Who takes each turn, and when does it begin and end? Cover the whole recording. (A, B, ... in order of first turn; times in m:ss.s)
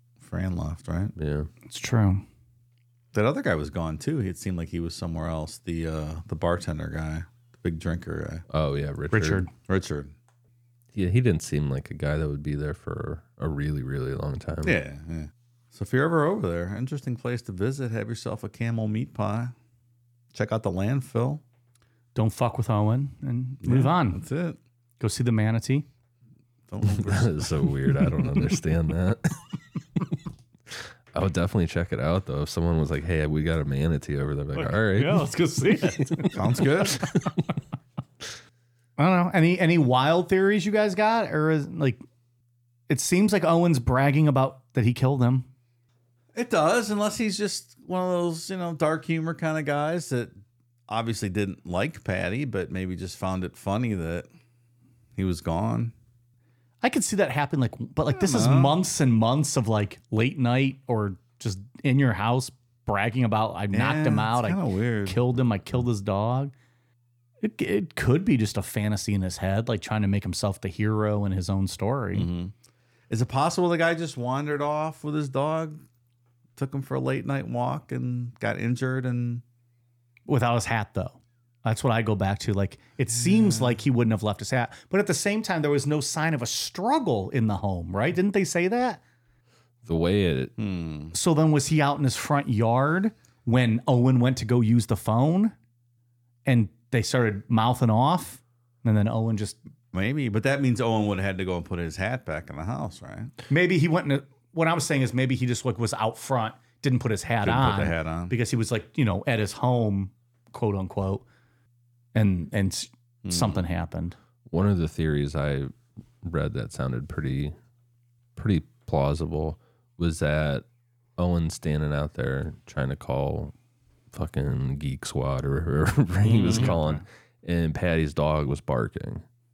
0:00.2-0:01.1 A
0:01.2-0:01.5 B
0:01.7-0:02.2 C
0:03.1-0:08.4 A
0:08.5-0:09.5 B
0:09.1-0:09.5 C
0:09.6-0:10.1 A
0:10.9-0:14.8 B
0:14.6-0:19.5 A
0:20.3-0:21.4 A
0:22.1-0:24.2 C
0:23.6-0:24.6 A
0:25.0-0:25.8 C
0:26.7-0:27.8 A
0:26.8-0:29.6 B
0:30.7-0:37.3 B
0:34.5-0:36.4 C
0:36.3-0:37.0 A
0:39.0-0:42.0 C
0:42.9-0:45.5 C
0:46.3-0:50.3 A
0:50.9-0:54.3 A
0:55.2-0:55.9 A
0:56.8-1:06.5 C
0:58.1-0:58.8 A
1:03.7-1:05.2 A
1:07.4-1:12.3 C
1:12.1-1:12.5 A
1:13.1-1:15.8 A
1:16.6-1:19.4 A
1:20.3-1:29.0 C
1:23.2-1:23.7 A
1:29.8-1:30.5 B
1:30.6-1:31.1 A
1:31.1-1:35.5 C
1:36.4-1:39.6 C
1:39.9-1:43.3 A
1:43.5-1:51.2 C
1:47.4-1:48.4 A
1:52.1-1:54.2 C
1:53.2-1:53.6 A
1:54.5-1:57.5 B
1:58.4-2:00.6 B
2:01.2-2:03.5 B
2:04.1-2:09.2 B
2:06.2-2:06.7 A
2:06.5-2:07.0 C